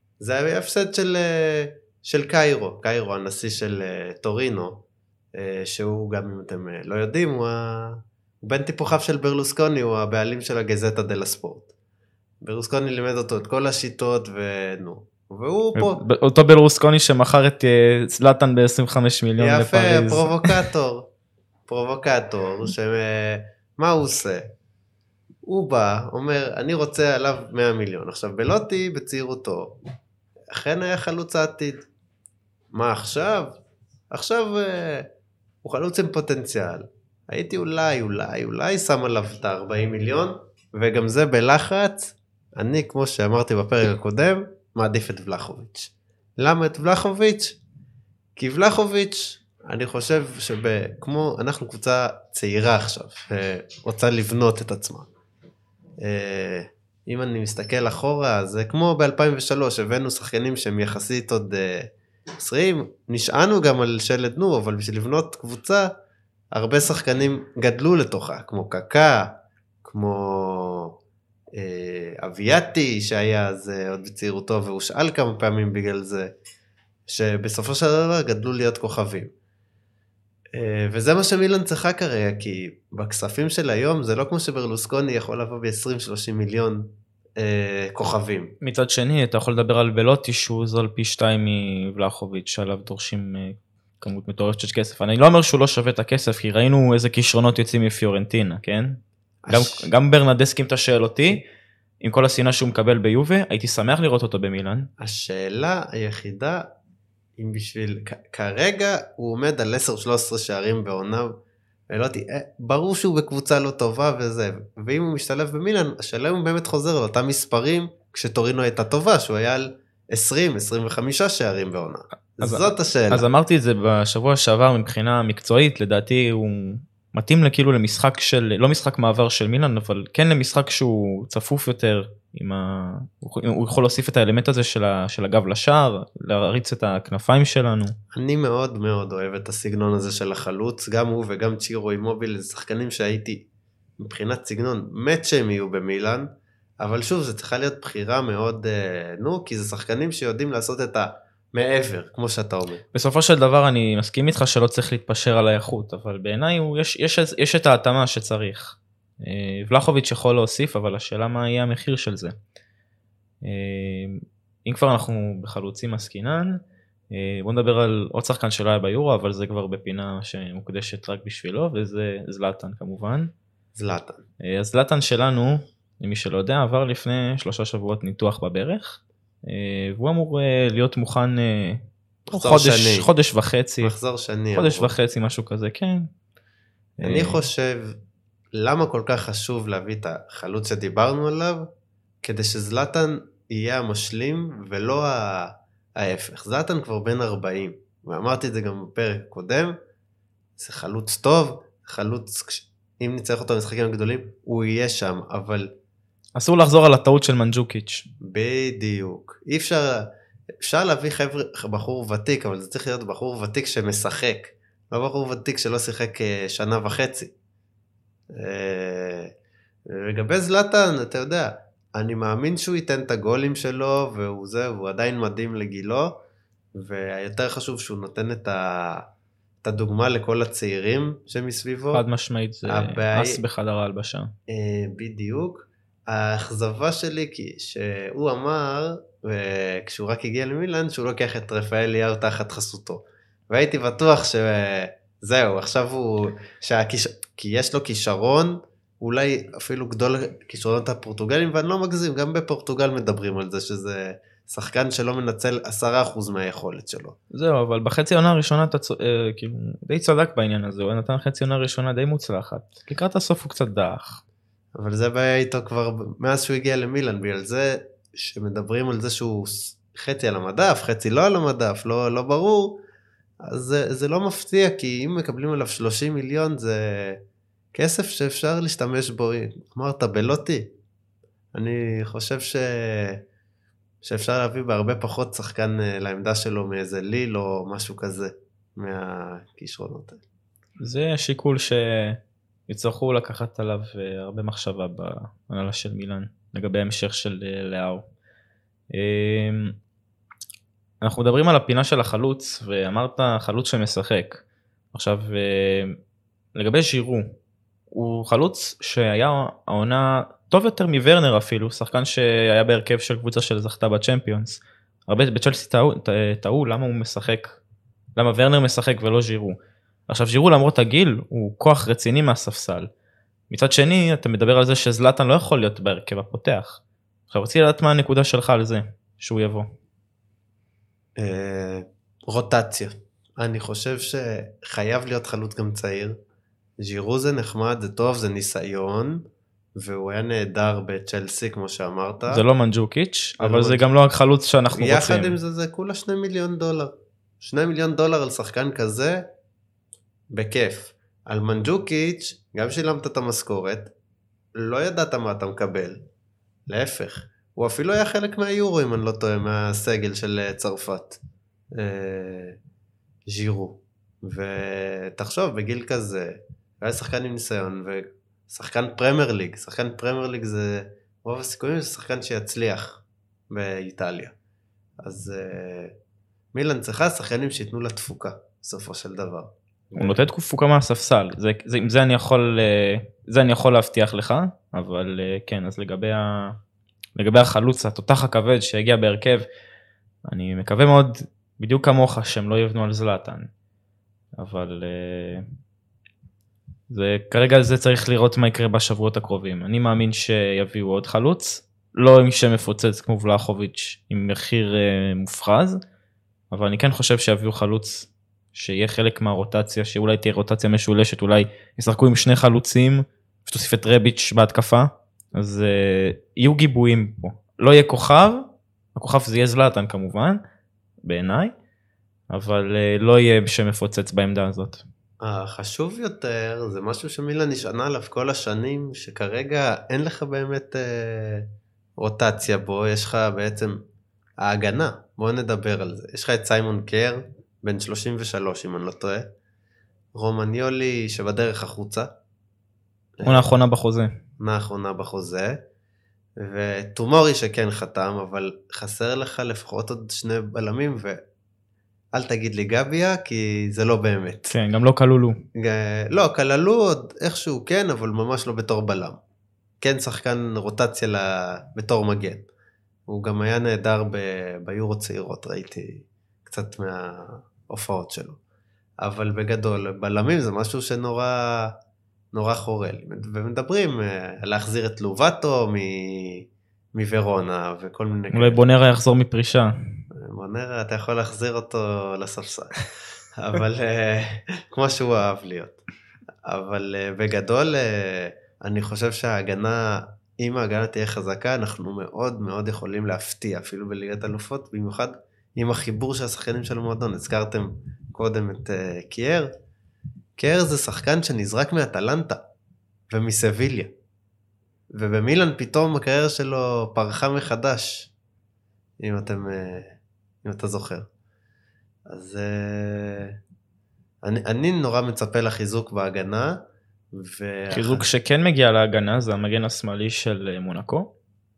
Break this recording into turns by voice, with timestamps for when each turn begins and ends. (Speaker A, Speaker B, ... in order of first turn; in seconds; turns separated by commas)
Speaker A: 0.2-4.8, Speaker A: 5.3-11.7, Speaker A: 12.4-16.0, Speaker B: 15.7-20.6, Speaker A: 19.4-21.1, Speaker A: 21.7-24.5, Speaker A: 25.4-29.8, Speaker A: 30.5-31.8, Speaker A: 32.7-33.6, Speaker A: 34.1-35.1, Speaker A: 35.6-47.6, Speaker A: 48.4-55.1, Speaker A: 56.0-65.9, Speaker A: 66.5-71.0, Speaker A: 71.5-76.3, Speaker A: 77.1-79.3, Speaker A: 80.5-88.5, Speaker B: 88.6-99.0, Speaker A: 99.4-99.9, Speaker B: 99.5-101.4, Speaker B: 102.0-104.9, Speaker A: 105.0-106.7, Speaker A: 107.4-111.3, Speaker A: 111.9-123.2, Speaker B: 122.4-137.9, Speaker A: 138.1-143.4, Speaker A: 144.0-146.3, Speaker A: 146.8-152.8, Speaker B: 152.9-162.3, Speaker B: 163.4-166.6, Speaker B: 167.1-173.3, Speaker A: 173.7-174.2, Speaker B: 174.4-183.9, Speaker A: 182.3-183.1, Speaker A: 183.8-184.9, Speaker B: 184.5-186.1, Speaker B: 187.0-187.4, Speaker A: 187.0-188.0, Speaker A: 188.5-191.7, Speaker A: 192.2-199.7, Speaker A: 200.6-205.7, Speaker B: 206.3-208.1, Speaker A: 208.2-210.1, Speaker A: 210.6-217.3, Speaker A: 218.3-219.3, Speaker A: 219.9-226.2, Speaker A: 226.8-229.1, Speaker A: 229.6-232.0, Speaker B: 231.9-234.3, Speaker A: 232.7-233.4, Speaker A: 234.5-257.1, Speaker B: 257.3-264.2, Speaker A: 264.7-272.8, Speaker A: 273.4-277.2, Speaker A: 277.7-280.7, Speaker A: 281.5-283.2, Speaker A: 284.0-290.2, Speaker B: 290.8-298.1, Speaker B: 298.9-299.7, Speaker B: 301.0-304.4, Speaker B: 304.9-306.0, Speaker B: 306.6-307.3, Speaker B: 307.9-317.6, Speaker B: 318.1-319.6, Speaker B: 320.1-322.9, Speaker B: 323.5-329.7, Speaker A: 331.2-336.1, Speaker A: 336.8-339.2, Speaker A: 339.8-342.4, Speaker B: 342.3-345.4, Speaker A: 343.4-343.9, Speaker A: 344.7-349.2, Speaker A: 350.3-353.9, Speaker A: 354.5-356.0, Speaker A: 356.7-361.2, Speaker A: 361.7-362.6, Speaker A: 363.3-374.3, Speaker A: 375.0-375.9, Speaker A: 376.5-380.2, Speaker B: 379.9-386.6, Speaker B: 387.1-389.4, Speaker B: 390.2-393.5, Speaker B: 394.4-395.4, Speaker B: 396.9-405.8, Speaker B: 406.5-420.4, Speaker B: 421.0-421.5, Speaker B: 422.3-424.8, Speaker A: 425.2-433.8, Speaker A: 434.4-439.3, Speaker A: 440.1-442.1, Speaker A: 443.2-443.5, Speaker B: 443.2-444.1, Speaker A: 444.4-445.6, Speaker A: 446.4-451.2, Speaker A: 452.1-454.5, Speaker B: 454.5-455.4, Speaker A: 455.6-459.2, Speaker A: 459.8-462.4, Speaker A: 463.1-468.4, Speaker A: 469.0-471.7, Speaker A: 472.3-478.6, Speaker B: 478.3-479.7, Speaker A: 480.1-482.8, Speaker A: 483.3-485.8, Speaker A: 486.4-499.5, Speaker A: 500.4-502.4, Speaker A: 503.1-503.9, Speaker A: 504.9-508.1, Speaker A: 509.0-511.1, Speaker A: 512.1-513.4, Speaker A: 514.2-516.6, Speaker A: 517.1-518.0, Speaker B: 517.7-521.1